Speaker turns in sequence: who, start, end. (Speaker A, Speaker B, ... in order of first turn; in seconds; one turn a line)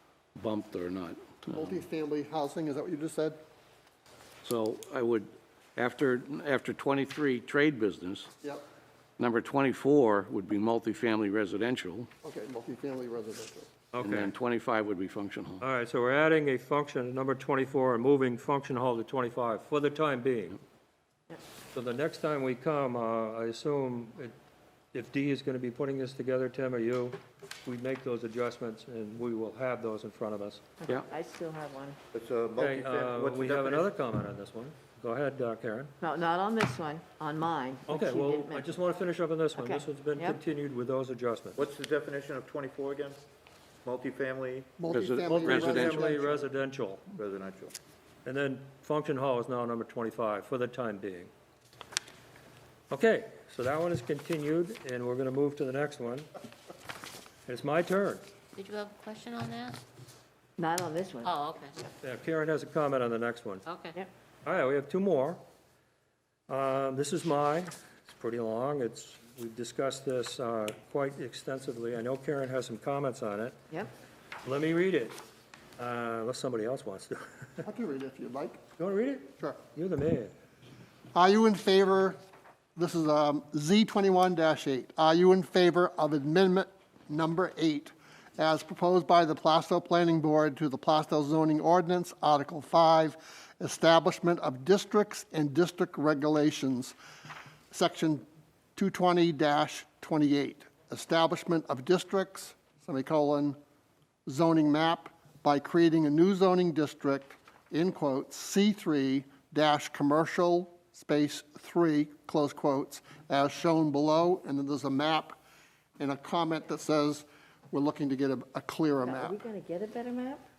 Speaker A: 0.4-1.8
Speaker B: 1.5-3.4
Speaker A: 4.4-8.3
Speaker A: 9.2-12.1
Speaker B: 12.2-13.7
Speaker C: 13.9-14.3
Speaker A: 14.0-15.6
Speaker C: 15.6-20.6
Speaker C: 21.7-24.4
Speaker C: 24.9-30.6
Speaker D: 30.8-32.0
Speaker E: 32.1-33.9
Speaker C: 32.6-35.9
Speaker D: 36.0-38.8
Speaker C: 37.9-41.7
Speaker D: 39.5-40.4
Speaker E: 41.6-43.2
Speaker E: 43.9-44.8
Speaker B: 44.8-46.5
Speaker A: 44.9-46.1
Speaker C: 45.3-47.0
Speaker E: 47.1-47.8
Speaker C: 48.2-51.3
Speaker C: 52.9-56.3
Speaker C: 57.5-58.2
Speaker F: 58.6-59.8
Speaker D: 60.6-61.4
Speaker F: 61.2-61.8
Speaker C: 62.0-63.6
Speaker F: 63.6-64.0
Speaker C: 64.5-65.4
Speaker C: 66.5-73.6
Speaker C: 74.4-75.2
Speaker C: 75.8-77.6
Speaker B: 77.6-78.6
Speaker C: 78.8-80.3
Speaker B: 81.1-82.2
Speaker B: 82.8-97.0
Speaker B: 97.7-98.2
Speaker B: 98.8-103.6
Speaker B: 104.3-115.4
Speaker B: 116.0-119.4
Speaker D: 119.0-120.5